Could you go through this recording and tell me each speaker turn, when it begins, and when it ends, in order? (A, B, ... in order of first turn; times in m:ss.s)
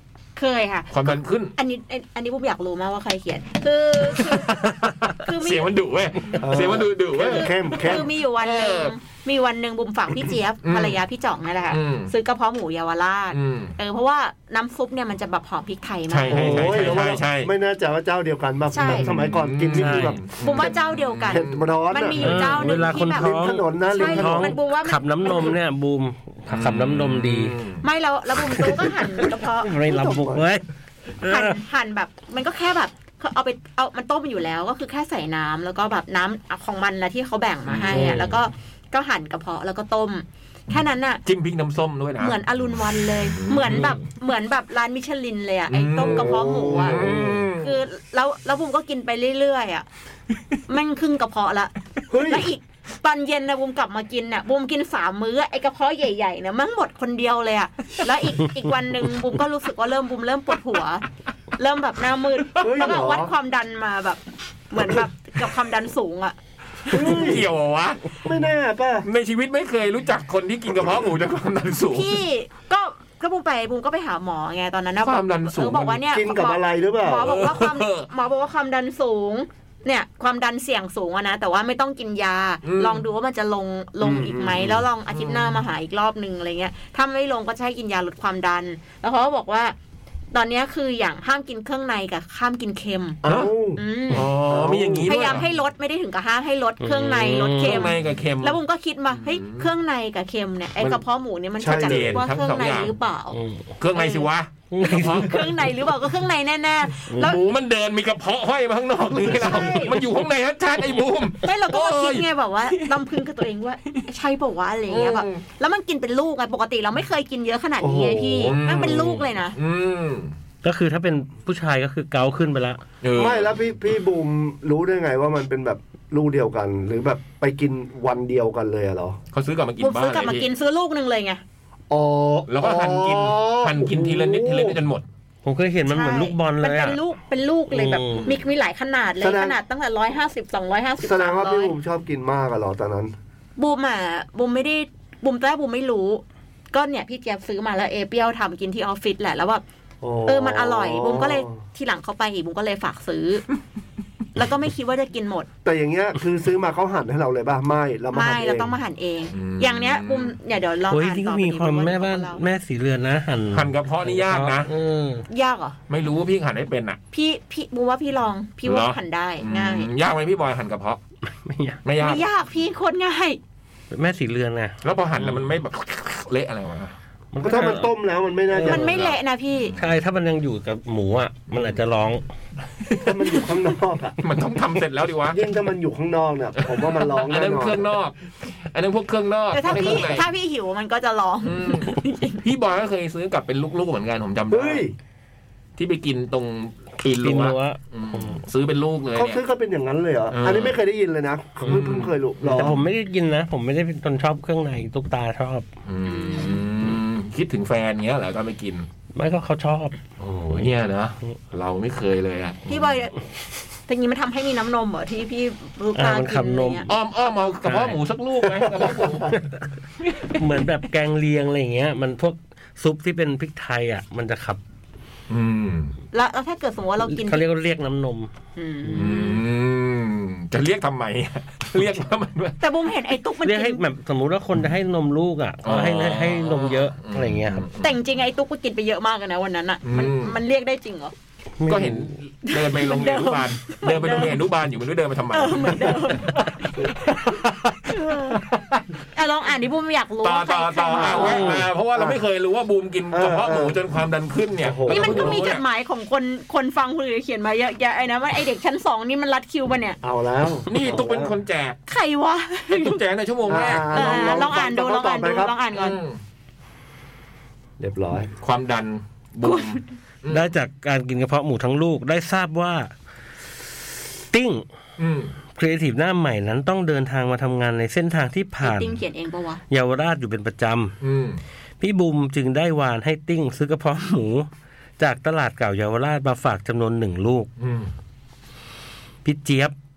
0:00.4-0:04.7 A
0:00.9-0:01.5 B
0:04.2-0:09.0 B
0:05.2-0:05.7 A
0:06.4-0:08.1 C
0:07.1-0:17.0 A
0:10.6-0:11.0 B
0:11.7-0:12.1 B
0:13.3-0:13.8 B
0:16.1-0:17.5 B
0:16.3-0:20.7 C
0:18.7-0:19.1 A
0:18.8-0:21.6 B
0:19.8-0:20.2 D
0:20.3-0:25.6 A
0:21.3-0:22.3 C
0:22.2-0:22.5 B
0:22.2-0:27.5 D
0:22.9-0:24.6 C
0:26.5-0:27.8 B
0:27.8-0:29.8 A
0:29.6-0:30.6 D
0:29.8-0:30.5 C
0:31.2-0:31.6 D
0:31.3-0:41.2 A
0:37.7-0:38.4 B
0:41.2-0:42.4 B
0:42.2-0:47.0 A
0:43.4-0:44.0 B
0:45.7-0:47.8 B
0:46.0-0:47.5 C
0:47.6-0:49.8 A
0:50.7-0:51.7 A
0:52.1-0:52.5 C
0:52.3-1:01.0 A
1:01.6-1:06.4 A
1:02.6-1:03.3 C
1:02.6-1:03.0 B
1:06.9-1:08.0 B
1:06.9-1:07.5 C
1:08.2-1:09.1 C
1:09.0-1:12.2 B
1:11.9-1:29.8 A
1:15.0-1:16.0 B
1:16.1-1:17.4 C
1:17.2-1:18.1 B
1:22.6-1:23.0 B
1:24.0-1:24.8 C
1:24.6-1:25.5 B
1:30.3-1:33.2 A
1:33.2-1:35.4 C
1:33.2-1:33.5 B
1:33.8-1:34.3 A
1:34.1-1:35.5 B
1:35.1-1:43.4 A
1:36.8-1:37.9 D
1:37.6-1:38.6 B
1:39.1-1:39.7 B
1:41.6-1:42.2 C
1:41.8-1:42.9 B
1:43.3-1:43.6 D
1:43.8-1:45.5 B
1:44.0-1:44.3 A
1:44.7-1:45.3 D
1:44.8-1:47.4 A
1:47.1-1:47.3 D
1:47.2-1:52.9 B
1:49.3-1:50.0 A
1:51.4-1:59.6 A
1:54.9-1:55.4 B
1:57.8-1:58.6 C
1:58.5-2:00.4 B
1:58.9-1:59.2 D
2:00.6-2:02.8 D
2:03.0-2:03.5 B
2:03.2-2:09.2 C
2:09.3-2:10.5 B
2:09.8-2:11.4 A
2:11.9-2:14.8 C
2:12.5-2:15.0 B
2:15.4-2:17.0 D
2:15.9-2:21.8 A
2:17.7-2:18.3 D
2:19.2-2:19.6 C
2:21.0-2:23.2 C
2:23.6-2:29.6 A
2:30.0-2:31.6 C
2:30.3-2:33.4 A
2:34.4-2:35.5 A
2:35.6-2:38.7 C
2:38.1-2:42.4 A
2:39.3-2:40.4 B
2:40.9-2:45.2 D
2:43.5-2:44.7 B
2:45.3-2:45.8 A
2:45.9-2:47.0 B
2:47.1-2:49.9 A
2:48.6-2:51.0 B
2:51.4-2:51.8 D
2:51.8-2:52.3 B
2:52.0-2:53.4 A
2:53.9-2:55.5 D
2:54.8-2:57.0 B
2:57.3-2:57.9 D
2:57.4-2:58.9 C
2:58.5-2:58.9 D
2:58.6-2:59.8 A
2:58.7-2:59.9 B
2:59.8-3:02.2 D
3:01.5-3:01.8 B
3:02.9-3:03.3 B
3:03.0-3:04.2 C
3:04.2-3:05.4 B
3:05.3-3:07.8 C
3:06.6-3:10.3 B
3:09.5-3:12.4 A
3:11.4-3:14.9 B
3:14.5-3:14.9 C
3:15.8-3:19.4 B
3:17.2-3:18.4 D
3:19.2-3:22.8 C
3:20.3-3:20.8 B
3:21.6-3:22.8 B
3:22.4-3:25.7 D
3:25.9-3:28.9 B
3:26.0-3:26.6 A
3:29.1-3:30.0 D
3:30.2-3:33.0 B
3:32.7-3:33.1 A
3:33.9-3:36.9 A
3:36.0-3:36.9 D
3:36.9-3:39.3 B
3:37.7-3:38.0 D
3:38.6-3:39.3 C
3:40.1-3:40.3 B
3:40.4-3:44.6 D
3:45.3-3:45.9 B
3:46.1-3:47.5 A
3:47.0-3:48.3 D
3:48.6-3:49.4 A
3:48.9-3:52.6 B
3:52.6-3:53.8 A
3:53.4-3:57.6 D
3:55.6-3:58.0 B
3:57.8-4:01.1 A
3:59.8-4:00.4 B
4:01.6-4:02.1 D
4:01.7-4:08.8 B
4:02.5-4:04.4 A
4:05.3-4:06.4 A
4:07.9-4:08.4 A
4:09.2-4:11.4 A
4:10.2-4:15.6 B
4:11.0-4:12.2 C
4:11.2-4:11.6 D
4:13.1-4:13.8 C
4:14.6-4:15.4 C
4:14.9-4:20.0 A
4:20.0-4:21.3 C
4:20.7-4:21.8 B
4:21.9-4:26.0 A
4:22.7-4:24.6 B
4:23.5-4:25.5 C
4:25.7-4:26.2 B
4:27.8-4:28.3 C
4:28.4-4:30.5 B
4:29.4-4:29.8 A
4:30.3-4:32.9 D
4:34.3-4:34.7 D
4:35.0-4:35.3 B
4:35.6-4:39.0 D
4:38.6-4:39.6 A
4:39.7-4:40.9 D
4:41.0-4:41.4 B
4:41.8-4:44.5 D
4:45.0-4:47.5 D
4:47.6-4:47.9 B
4:49.2-4:49.7 D